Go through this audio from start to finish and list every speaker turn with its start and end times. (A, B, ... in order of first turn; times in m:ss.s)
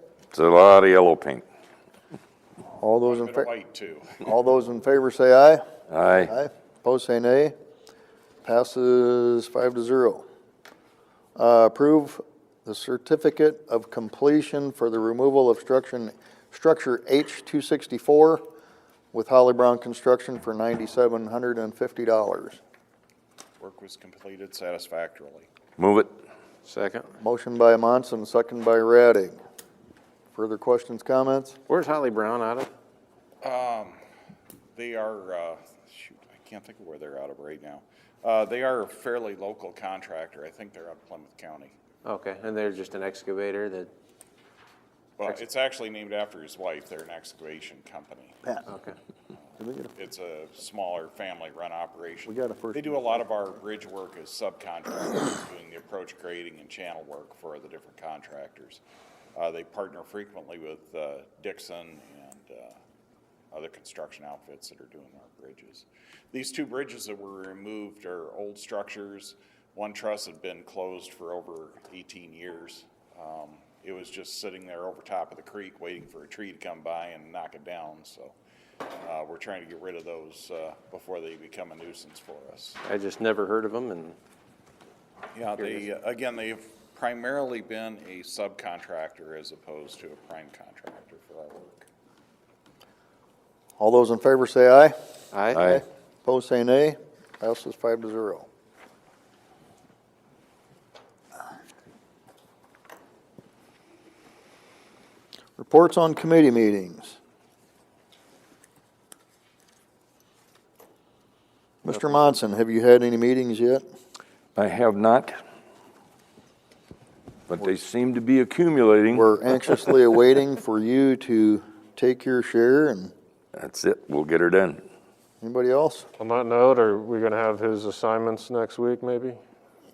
0:00.3-0:01.4 A
0:02.8-0:03.5 B
0:03.1-0:04.2 C
0:04.2-0:05.6 B
0:05.9-0:06.3 A
0:06.2-0:07.5 B
0:08.4-0:10.2 B
0:11.4-0:18.4 B
0:19.1-0:22.6 B
0:23.6-0:25.5 C
0:25.8-0:26.1 A
0:26.6-0:27.1 D
0:27.2-0:29.4 B
0:30.3-0:31.6 B
0:31.7-0:32.7 D
0:33.4-0:34.0 C
0:34.7-0:41.7 C
0:42.0-0:43.9 D
0:45.2-0:48.4 C
0:48.7-0:49.0 D
0:49.6-0:49.9 B
0:49.9-0:58.8 C
0:52.2-0:53.2 B
0:59.3-1:02.8 C
1:03.5-1:18.3 C
1:19.0-1:22.8 C
1:22.8-1:24.2 D
1:25.3-1:31.8 C
1:25.6-1:25.8 D
1:33.8-1:34.9 B
1:35.3-1:35.6 D
1:35.5-1:35.8 A
1:35.6-1:38.5 B
1:45.6-1:47.2 B
1:51.8-1:53.8 B
1:54.5-1:55.4 A
1:57.5-1:59.3 A
1:59.1-2:03.1 B
2:03.5-2:04.8 A
2:05.4-2:06.1 B
2:06.2-2:09.3 E